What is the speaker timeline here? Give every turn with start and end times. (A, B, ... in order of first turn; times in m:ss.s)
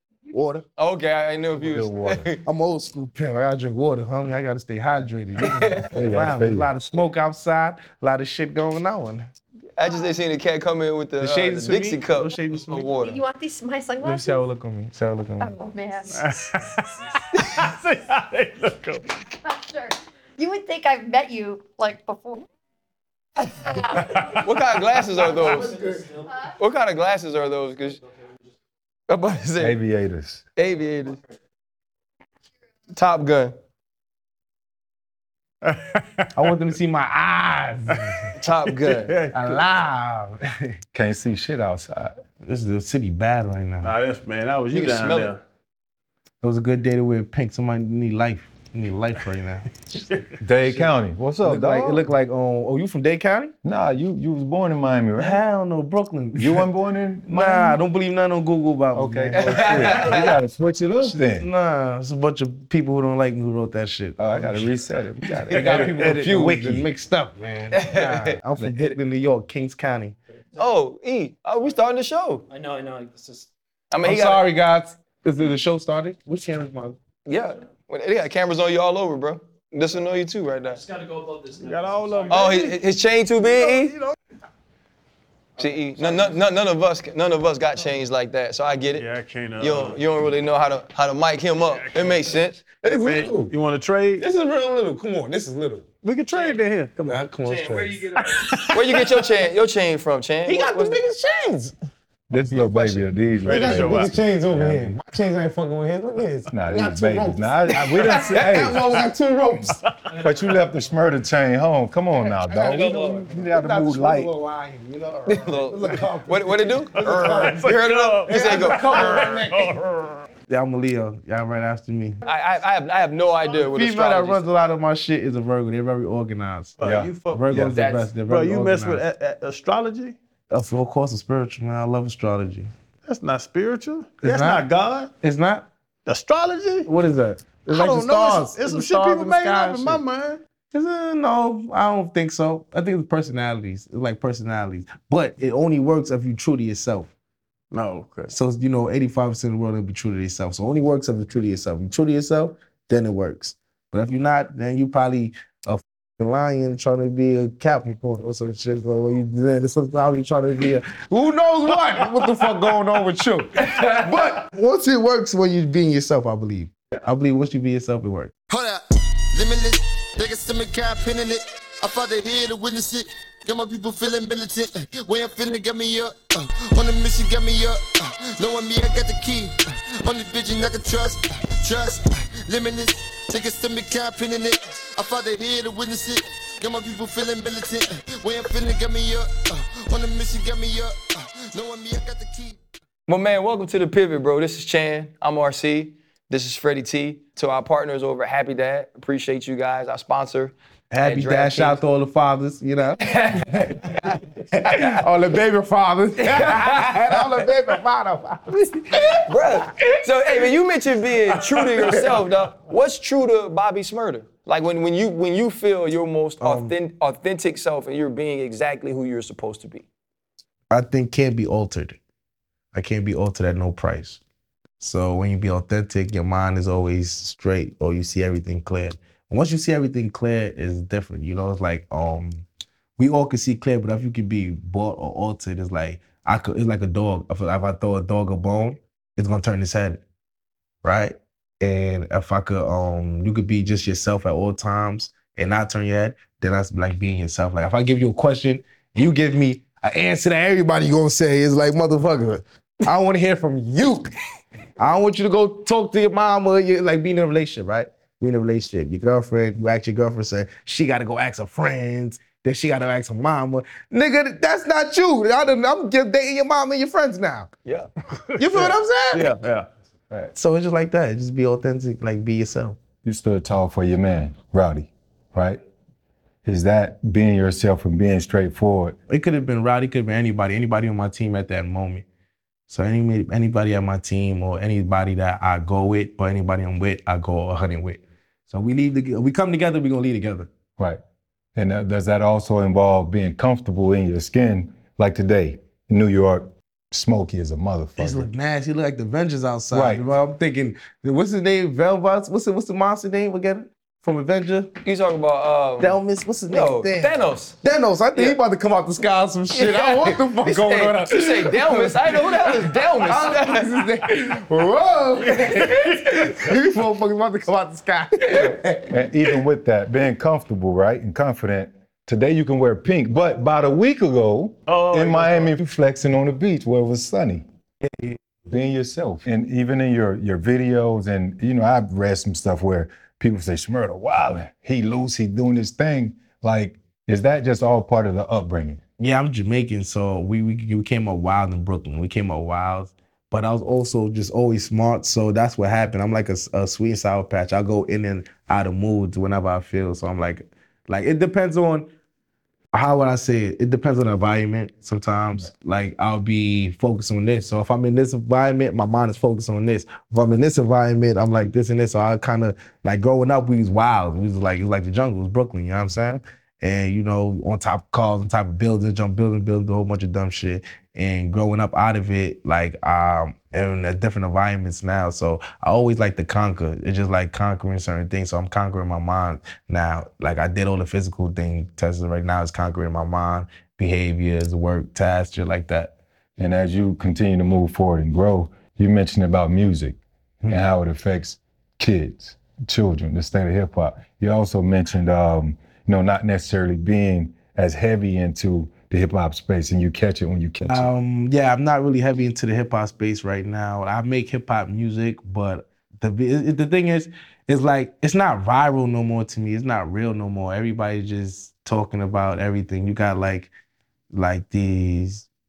0:00.3-0:00.6 A
0:00.8-0:02.4 B
0:01.6-0:02.3 C
0:02.4-0:09.3 A
0:05.4-0:05.8 B
0:05.9-0:06.7 C
0:09.8-0:13.2 B
0:11.2-0:12.9 A
0:13.0-0:14.4 D
0:14.0-0:15.5 A
0:15.4-0:16.2 D
0:16.1-0:19.1 E
0:19.4-0:22.4 D
0:24.2-0:25.8 B
0:26.4-0:28.0 B
0:29.1-0:29.8 B
0:29.6-0:30.4 C
0:30.6-0:31.2 B
0:32.9-0:33.5 B
0:35.6-0:36.3 E
0:36.3-0:40.8 A
0:38.4-0:39.1 B
0:38.9-0:39.6 E
0:40.9-0:42.1 C
0:42.4-0:43.9 A
0:43.8-0:45.4 E
0:44.7-0:45.4 B
0:44.8-0:45.0 A
0:46.4-0:50.1 A
0:50.4-0:52.1 C
0:51.4-0:53.5 A
0:53.6-0:55.4 C
0:55.2-0:56.7 A
0:56.4-0:57.8 C
0:57.3-1:00.4 A
0:58.9-1:01.5 C
0:59.3-1:00.3 B
1:01.0-1:04.7 A
1:04.2-1:06.9 C
1:05.4-1:10.2 A
1:07.7-1:08.9 B
1:10.6-1:12.4 B
1:12.5-1:13.4 F
1:13.9-1:14.4 B
1:14.0-1:17.0 A
1:17.2-1:20.8 B
1:21.0-1:22.2 F
1:21.6-1:22.7 E
1:22.3-1:23.9 B
1:23.5-1:24.2 A
1:25.6-1:29.0 B
1:29.0-1:30.0 E
1:29.6-1:32.6 B
1:31.7-1:32.3 E
1:32.8-1:33.5 A
1:32.8-1:34.2 E
1:34.2-1:35.8 A
1:36.0-1:36.9 E
1:36.9-1:38.2 A
1:37.5-1:38.0 F
1:38.2-1:39.0 E
1:38.7-1:41.0 B
1:40.4-1:41.7 A
1:42.3-1:45.0 C
1:42.4-1:50.3 A
1:43.4-1:44.1 E
1:46.5-1:49.0 C
1:50.1-1:54.3 C
1:52.2-1:59.8 A
1:55.3-1:59.2 B
1:57.0-2:00.2 E
2:00.5-2:02.2 A
2:02.2-2:04.5 B
2:03.5-2:09.0 A
2:06.8-2:07.7 E
2:06.8-2:07.7 C
2:07.7-2:08.1 B
2:08.3-2:10.2 E
2:10.5-2:12.7 A
2:13.1-2:15.1 E
2:14.2-2:14.6 A
2:15.2-2:15.7 A
2:16.0-2:16.9 E
2:16.8-2:20.0 A
2:17.7-2:20.4 E
2:20.7-2:27.1 A
2:27.7-2:28.3 E
2:28.3-2:48.3 A
2:48.5-2:48.8 G
2:49.3-3:12.6 G
3:13.1-3:21.8 B
3:20.9-3:30.5 A
3:26.4-3:27.0 B
3:29.2-3:39.8 B
3:31.3-3:32.2 A
3:36.4-3:36.8 A
3:40.7-3:42.0 A
3:42.7-3:44.2 A
3:44.8-3:52.4 A
3:53.0-4:00.0 A
4:00.8-4:14.1 A
4:14.8-4:27.5 A
4:28.4-4:29.3 A
4:28.4-4:29.7 E
4:30.3-4:32.8 A
4:33.0-4:35.6 C
4:36.4-4:39.0 C
4:39.1-4:42.0 A
4:42.7-4:50.5 A
4:51.5-4:58.3 C
4:58.0-5:04.7 A
4:59.7-5:00.0 C
5:04.8-5:06.0 B
5:05.8-5:19.0 A
5:06.5-5:07.6 B
5:09.5-5:13.7 B
5:15.4-5:15.9 E
5:18.3-5:18.6 B
5:18.9-5:27.4 C
5:24.7-5:25.5 E
5:27.8-5:28.2 A
5:28.5-5:38.8 C
5:39.0-5:51.9 A
5:52.7-6:25.9 A
6:26.4-6:40.9 C
6:40.7-6:53.5 A
6:54.1-6:55.2 A